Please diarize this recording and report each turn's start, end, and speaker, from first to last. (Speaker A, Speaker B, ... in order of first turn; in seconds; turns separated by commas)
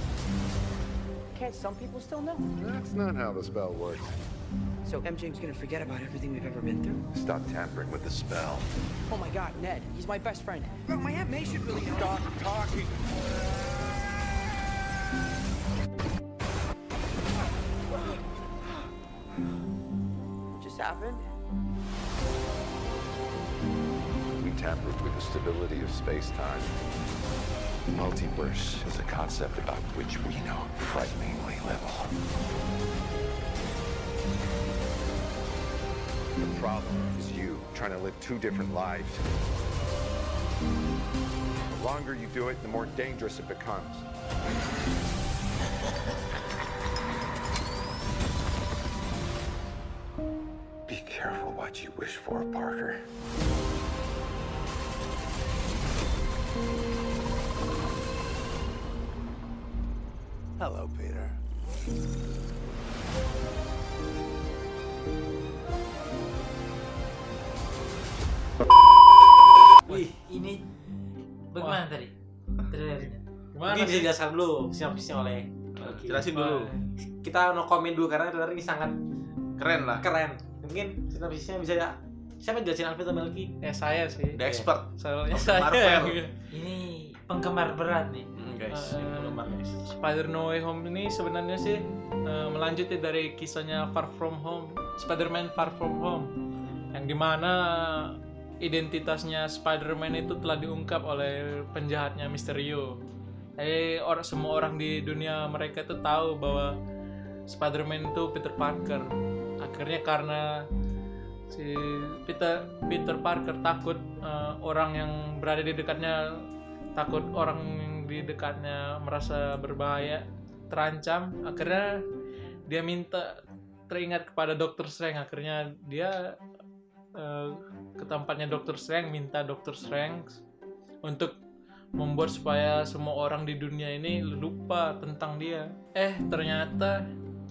Speaker A: 1.3-2.5, Speaker B: 2.6-4.2, Speaker A: 4.8-7.0, Speaker B: 7.1-8.7, Speaker A: 9.1-12.9, Speaker A: 20.5-21.2, Speaker B: 24.4-26.7, Speaker B: 27.9-32.2, Speaker B: 36.4-39.2, Speaker B: 41.7-44.1, Speaker B: 50.9-53.0, Speaker B: 60.6-61.4, Speaker C: 69.9-70.1, Speaker D: 70.2-70.6, Speaker D: 71.5-72.1, Speaker D: 72.7-73.2, Speaker E: 73.5-74.1, Speaker C: 73.7-76.3, Speaker F: 75.8-76.7, Speaker E: 76.3-76.9, Speaker C: 77.2-79.0, Speaker F: 79.6-80.0, Speaker C: 80.0-83.5, Speaker E: 83.6-84.5, Speaker F: 84.4-86.2, Speaker E: 85.0-86.3, Speaker D: 86.5-88.3, Speaker F: 88.4-89.8, Speaker E: 88.7-96.3, Speaker E: 96.9-103.0, Speaker E: 103.6-106.8, Speaker E: 107.5-109.1, Speaker E: 109.6-110.7, Speaker E: 111.5-116.5, Speaker E: 117.0-122.0, Speaker E: 122.7-123.4, Speaker E: 123.9-126.3, Speaker E: 127.2-130.4, Speaker E: 131.0-131.4, Speaker E: 132.0-137.0